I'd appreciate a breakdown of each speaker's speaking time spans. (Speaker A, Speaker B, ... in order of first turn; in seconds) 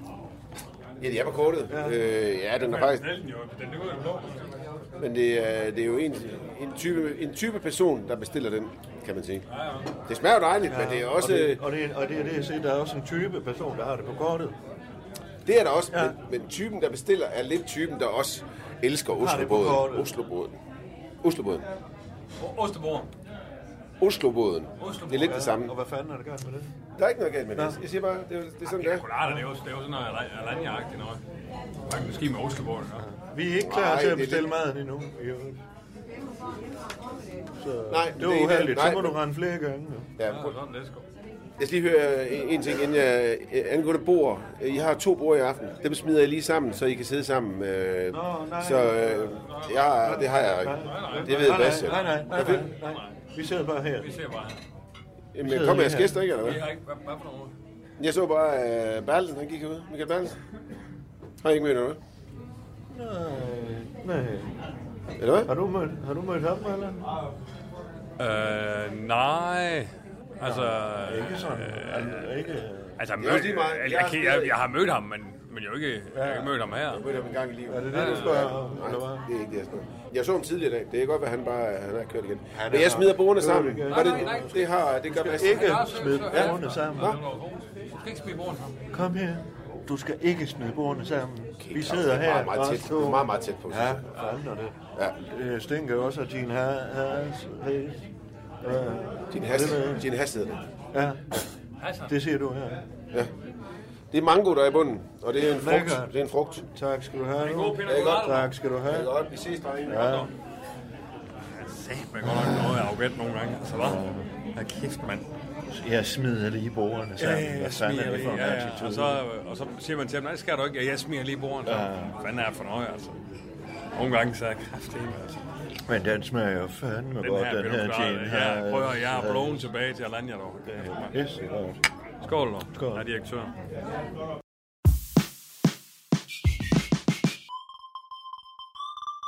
Speaker A: 1.0-3.1, 5.0-9.4, 10.1-11.6, 15.4-20.6, 21.2-21.7, 24.0-25.7, 27.0-29.1, 33.6-34.5, 37.9-39.1, 40.2-40.6, 41.6-52.7, 55.3-56.6, 58.0-60.4, 61.4-62.0, 65.2-65.5, 73.2-74.5, 76.9-85.5, 91.6-94.1, 99.3-100.7, 104.1-106.7, 107.8-108.3, 108.9-110.2
Speaker B: 1.7-2.0, 10.7-14.6, 19.1-20.1, 25.3-26.7, 27.6-27.8, 33.0-35.6, 37.6-40.1, 48.1-49.4, 50.0-54.1, 55.4-56.2, 62.9-64.6, 65.5-67.2, 70.4-73.0, 76.1-76.5, 77.7-79.3, 82.5-84.6, 85.2-87.2, 88.9-98.1, 98.6-100.1, 100.9-101.4, 102.1-102.9, 105.6-106.1, 106.7-109.1, 109.9-110.3, 112.2-112.8, 113.7-114.3, 115.7-119.2, 121.6-122.2, 125.9-129.7, 130.7-131.8, 132.7-133.1
Speaker C: 2.6-4.6, 9.5-9.9, 22.4-23.1, 24.8-25.4, 28.7-31.2, 31.9-33.0, 40.3-41.0, 49.4-49.8, 50.8-53.2, 53.9-54.6, 56.4-57.5, 68.2-72.3, 73.0-77.0, 77.9-78.5, 83.9-88.8, 101.8-102.1, 107.4-108.5, 109.9-110.3, 111.5-114.0, 114.5-115.3, 117.2-123.2, 123.9-125.4, 127.2-131.1, 132.2-133.5